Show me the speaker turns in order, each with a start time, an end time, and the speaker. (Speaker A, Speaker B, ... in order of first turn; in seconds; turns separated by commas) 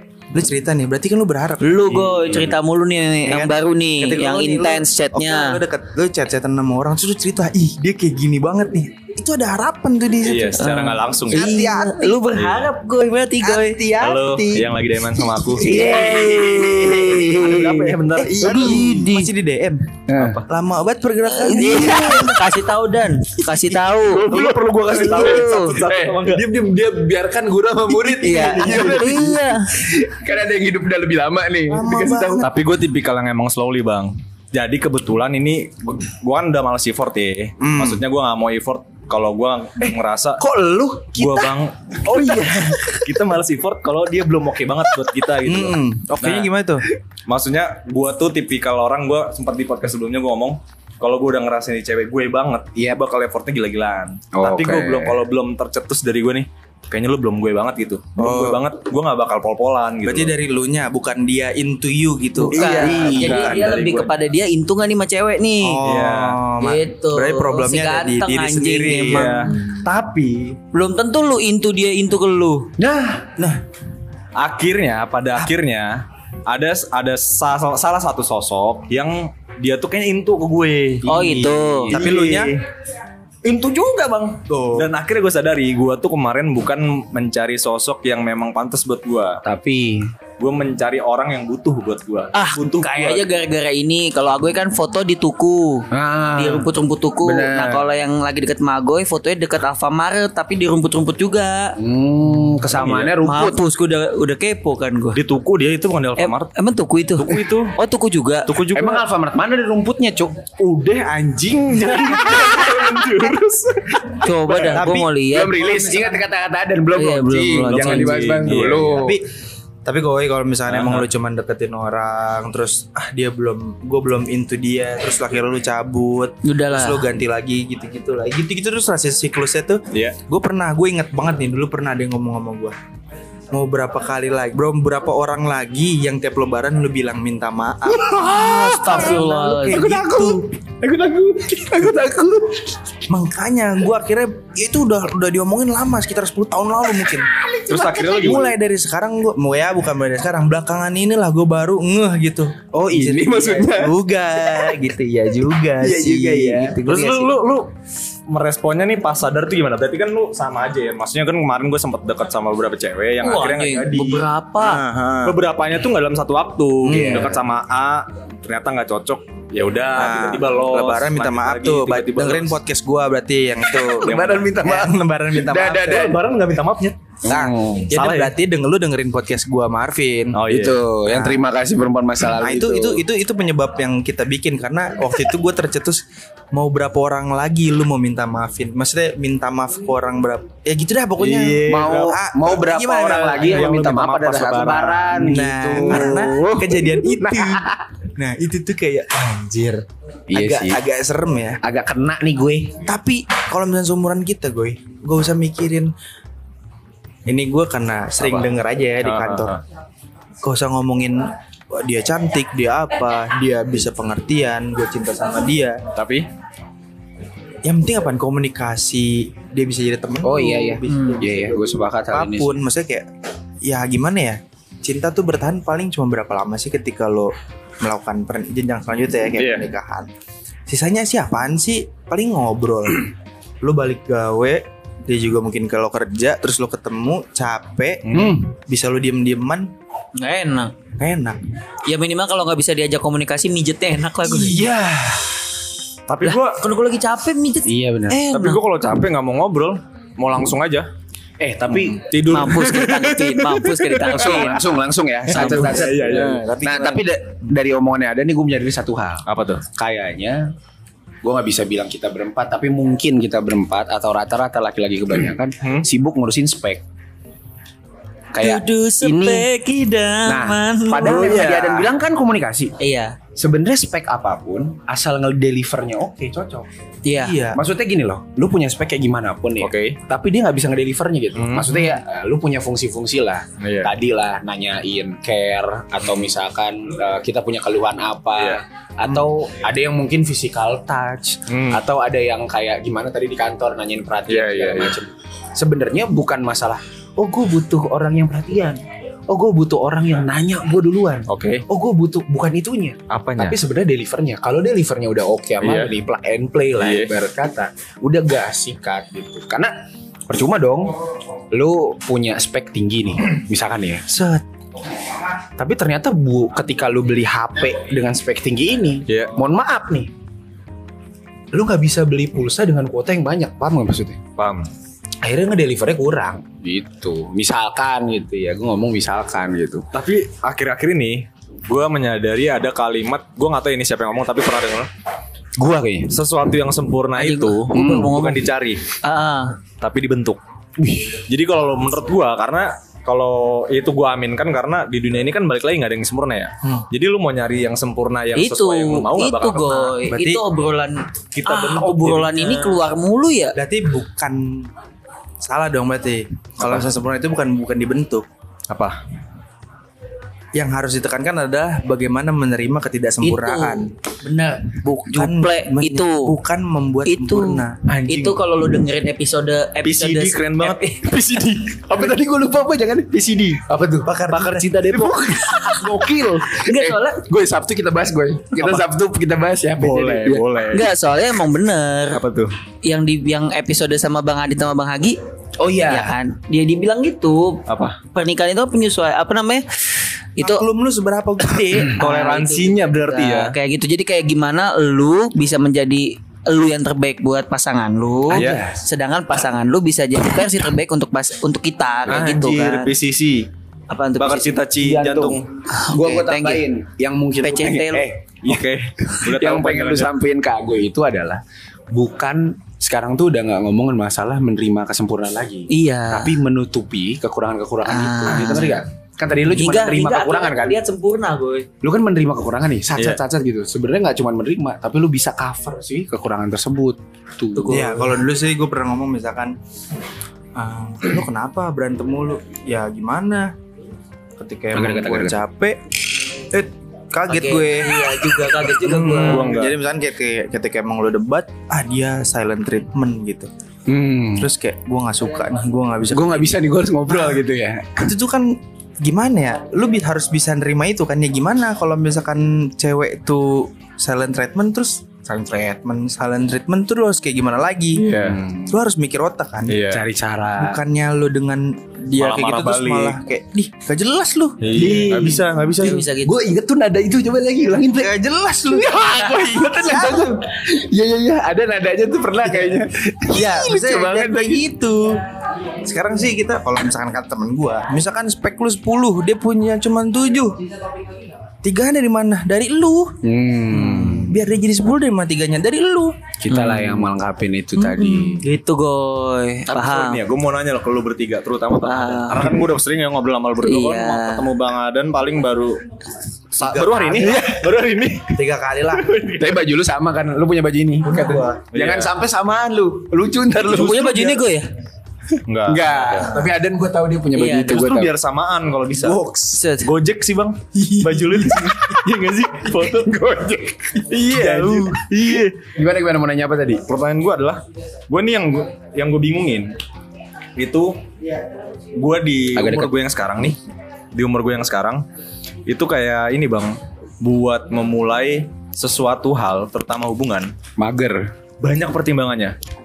Speaker A: 0.3-2.0, Speaker B: 1.6-5.6, Speaker C: 1.9-2.5, Speaker A: 3.2-10.7, Speaker C: 10.2-11.6, Speaker B: 10.6-13.8, Speaker A: 11.3-12.2, Speaker C: 12.3-12.7, Speaker A: 13.4-14.8, Speaker C: 14.0-16.7, Speaker B: 15.6-19.3, Speaker D: 15.8-17.0, Speaker C: 17.2-18.9, Speaker A: 18.2-22.4, Speaker D: 20.1-20.4, Speaker C: 20.1-20.5, Speaker B: 21.3-24.3, Speaker D: 21.6-22.4, Speaker D: 23.5-32.5, Speaker C: 24.3-26.5, Speaker B: 25.0-25.8, Speaker B: 28.1-29.7, Speaker A: 31.7-32.5, Speaker C: 32.4-40.4, Speaker A: 37.6-38.0, Speaker D: 39.8-41.5, Speaker C: 41.1-46.5, Speaker D: 42.1-43.0, Speaker A: 45.5-46.9, Speaker C: 47.3-60.4, Speaker D: 54.3-55.2, Speaker A: 58.2-58.6, Speaker A: 60.0-63.6, Speaker D: 62.5-63.6, Speaker B: 62.5-65.8, Speaker C: 62.6-64.1, Speaker A: 65.6-69.6, Speaker C: 65.8-66.4, Speaker B: 66.6-69.6, Speaker C: 69.0-70.6, Speaker B: 70.7-72.7, Speaker D: 72.8-73.3, Speaker C: 74.4-82.6, Speaker B: 81.0-81.9, Speaker D: 81.1-81.9, Speaker A: 81.9-82.5, Speaker C: 83.4-89.4, Speaker A: 84.5-84.9, Speaker D: 89.4-90.1, Speaker C: 90.4-93.3, Speaker B: 92.3-101.8, Speaker D: 95.9-96.7, Speaker D: 97.2-97.8, Speaker D: 101.8-103.6, Speaker C: 102.6-103.2, Speaker B: 103.2-105.2, Speaker C: 105.2-106.5, Speaker B: 106.2-108.5, Speaker C: 107.2-107.8, Speaker C: 108.5-109.0, Speaker D: 108.7-110.4, Speaker C: 110.6-114.8, Speaker D: 112.2-113.2, Speaker B: 114.2-115.7, Speaker A: 114.6-115.1, Speaker D: 115.3-119.2, Speaker B: 116.9-118.4, Speaker C: 117.7-119.0, Speaker A: 119.0-119.3, Speaker A: 119.8-132.8, Speaker C: 120.7-121.1, Speaker B: 126.5-127.0, Speaker C: 129.9-130.2, Speaker A: 133.5-140.4, Speaker D: 137.9-142.6, Speaker B: 138.6-139.8, Speaker A: 143.1-147.3, Speaker D: 147.4-148.4, Speaker C: 147.7-148.5, Speaker A: 148.0-157.3, Speaker D: 152.9-154.8, Speaker D: 155.8-156.8, Speaker C: 156.9-157.7, Speaker C: 158.3-164.2, Speaker B: 163.2-164.8, Speaker A: 164.6-165.4, Speaker C: 165.2-172.6, Speaker A: 166.8-167.4, Speaker D: 166.9-167.4, Speaker A: 169.9-176.1, Speaker D: 173.8-176.2, Speaker C: 174.0-174.5, Speaker C: 175.8-177.0, Speaker D: 177.2-177.9, Speaker A: 177.3-180.4, Speaker C: 177.9-178.3, Speaker C: 180.3-180.8, Speaker D: 180.5-183.0, Speaker A: 181.1-181.4, Speaker A: 182.4-193.6, Speaker C: 191.2-192.2, Speaker D: 191.7-197.8, Speaker C: 193.3-195.4, Speaker A: 195.2-201.6, Speaker D: 200.3-200.8, Speaker D: 201.6-202.8, Speaker A: 202.8-205.9, Speaker A: 207.3-209.6, Speaker C: 208.2-208.5, Speaker C: 209.0-209.6, Speaker A: 210.4-215.8, Speaker C: 215.9-216.3, Speaker A: 217.6-223.1, Speaker D: 220.2-222.6, Speaker B: 220.9-221.2, Speaker A: 223.6-230.1, Speaker C: 229.4-229.7, Speaker A: 230.7-233.1, Speaker A: 233.6-239.7, Speaker C: 238.1-238.4, Speaker D: 238.1-238.5, Speaker B: 240.2-240.7, Speaker A: 241.0-241.4, Speaker B: 241.9-244.7, Speaker D: 244.2-245.3, Speaker C: 246.1-246.6, Speaker B: 246.2-248.6, Speaker D: 247.7-248.2, Speaker C: 248.3-250.9, Speaker D: 251.4-252.2, Speaker C: 251.8-254.4, Speaker B: 252.3-254.7, Speaker D: 253.9-260.5, Speaker C: 255.3-256.6, Speaker B: 255.3-255.8, Speaker A: 255.7-257.0, Speaker C: 259.3-259.7, Speaker D: 261.2-266.8, Speaker C: 265.6-265.9, Speaker D: 268.3-269.5, Speaker B: 268.4-271.5, Speaker D: 270.3-272.8, Speaker C: 271.0-271.9, Speaker B: 272.8-273.2, Speaker D: 273.4-276.7, Speaker B: 277.0-277.4, Speaker A: 277.2-277.6, Speaker D: 277.5-309.7, Speaker C: 279.6-280.0, Speaker C: 281.4-281.9, Speaker C: 283.6-283.9, Speaker C: 288.4-289.2, Speaker C: 291.5-291.8, Speaker C: 294.3-295.0, Speaker C: 301.3-301.6, Speaker C: 303.1-303.6, Speaker C: 305.6-305.9, Speaker C: 306.8-307.1, Speaker D: 310.3-311.0, Speaker D: 311.5-314.1, Speaker A: 314.1-314.4, Speaker D: 315.6-320.1, Speaker C: 319.1-319.3, Speaker D: 321.5-324.2, Speaker C: 324.4-324.7, Speaker D: 325.2-329.9, Speaker C: 329.9-334.9, Speaker D: 335.6-336.1, Speaker C: 336.1-338.8, Speaker B: 337.2-338.5, Speaker D: 337.7-338.1, Speaker B: 339.0-339.6, Speaker C: 339.8-340.4, Speaker D: 340.8-341.2, Speaker C: 341.3-350.0, Speaker B: 348.4-353.6, Speaker A: 350.0-350.4, Speaker C: 351.3-352.8, Speaker A: 353.6-354.7, Speaker A: 355.4-358.2, Speaker C: 356.6-356.9, Speaker C: 358.7-359.0, Speaker A: 360.6-363.9, Speaker B: 363.2-366.4, Speaker A: 364.8-367.8, Speaker B: 367.1-371.0, Speaker C: 367.9-368.4, Speaker C: 369.8-370.9, Speaker D: 371.0-374.2, Speaker A: 374.1-374.7, Speaker C: 374.3-375.4, Speaker D: 374.9-380.4, Speaker B: 376.6-377.2, Speaker C: 378.6-378.9, Speaker C: 379.8-380.9, Speaker B: 380.7-382.2, Speaker C: 382.1-382.5, Speaker B: 382.8-385.2, Speaker D: 385.6-386.1, Speaker B: 385.9-389.7, Speaker C: 387.7-388.0, Speaker B: 390.4-390.6, Speaker A: 390.4-392.0, Speaker B: 391.9-402.9, Speaker C: 391.9-393.6, Speaker D: 398.3-398.9, Speaker C: 398.3-398.6, Speaker C: 402.1-403.5, Speaker B: 403.9-404.6, Speaker C: 404.2-405.4, Speaker D: 404.8-420.8, Speaker B: 405.7-406.6, Speaker B: 407.4-408.1, Speaker C: 408.4-410.1, Speaker B: 415.7-416.4, Speaker B: 417.9-418.9, Speaker B: 419.4-421.7, Speaker D: 421.8-427.9, Speaker C: 423.0-423.2, Speaker B: 427.6-428.2, Speaker A: 427.7-429.6, Speaker A: 430.6-433.5, Speaker A: 434.4-435.8, Speaker D: 434.7-435.4, Speaker A: 436.4-437.9, Speaker B: 437.3-439.6, Speaker A: 438.8-443.5, Speaker C: 438.9-439.8, Speaker D: 443.9-444.5, Speaker A: 444.4-446.5, Speaker D: 446.1-448.1, Speaker A: 447.1-447.4, Speaker A: 448.0-458.1, Speaker D: 458.0-458.8, Speaker C: 458.1-458.4, Speaker A: 458.7-459.8, Speaker C: 459.7-460.0, Speaker D: 459.9-460.8, Speaker A: 460.6-464.7, Speaker C: 462.2-463.2, Speaker C: 464.6-466.0, Speaker D: 464.7-474.6, Speaker B: 465.8-466.5, Speaker A: 467.9-470.4, Speaker A: 473.3-475.1, Speaker A: 475.8-480.6, Speaker A: 481.6-483.2, Speaker D: 483.2-484.4, Speaker B: 483.7-484.3, Speaker A: 484.3-486.2, Speaker D: 486.4-488.4, Speaker B: 486.5-487.1, Speaker B: 487.8-490.2, Speaker C: 489.7-495.8, Speaker B: 491.8-492.6, Speaker B: 493.6-494.5, Speaker C: 496.5-498.4, Speaker A: 496.6-497.6, Speaker A: 498.3-499.1, Speaker C: 498.9-499.6, Speaker D: 499.4-504.2, Speaker A: 501.0-501.6, Speaker C: 501.7-502.1, Speaker B: 503.6-504.7, Speaker A: 503.7-504.4, Speaker C: 505.5-506.4, Speaker D: 505.7-508.1, Speaker B: 507.3-507.8, Speaker C: 507.5-509.2, Speaker D: 509.0-509.6, Speaker B: 509.5-509.9, Speaker C: 509.8-513.3, Speaker D: 510.8-511.7, Speaker D: 512.7-516.9, Speaker C: 514.1-515.5, Speaker A: 514.5-514.9, Speaker C: 516.9-519.8, Speaker C: 520.6-521.0, Speaker C: 522.0-523.6, Speaker D: 522.6-522.9, Speaker C: 524.1-525.0, Speaker C: 525.7-530.5, Speaker D: 530.8-531.3, Speaker C: 531.6-532.5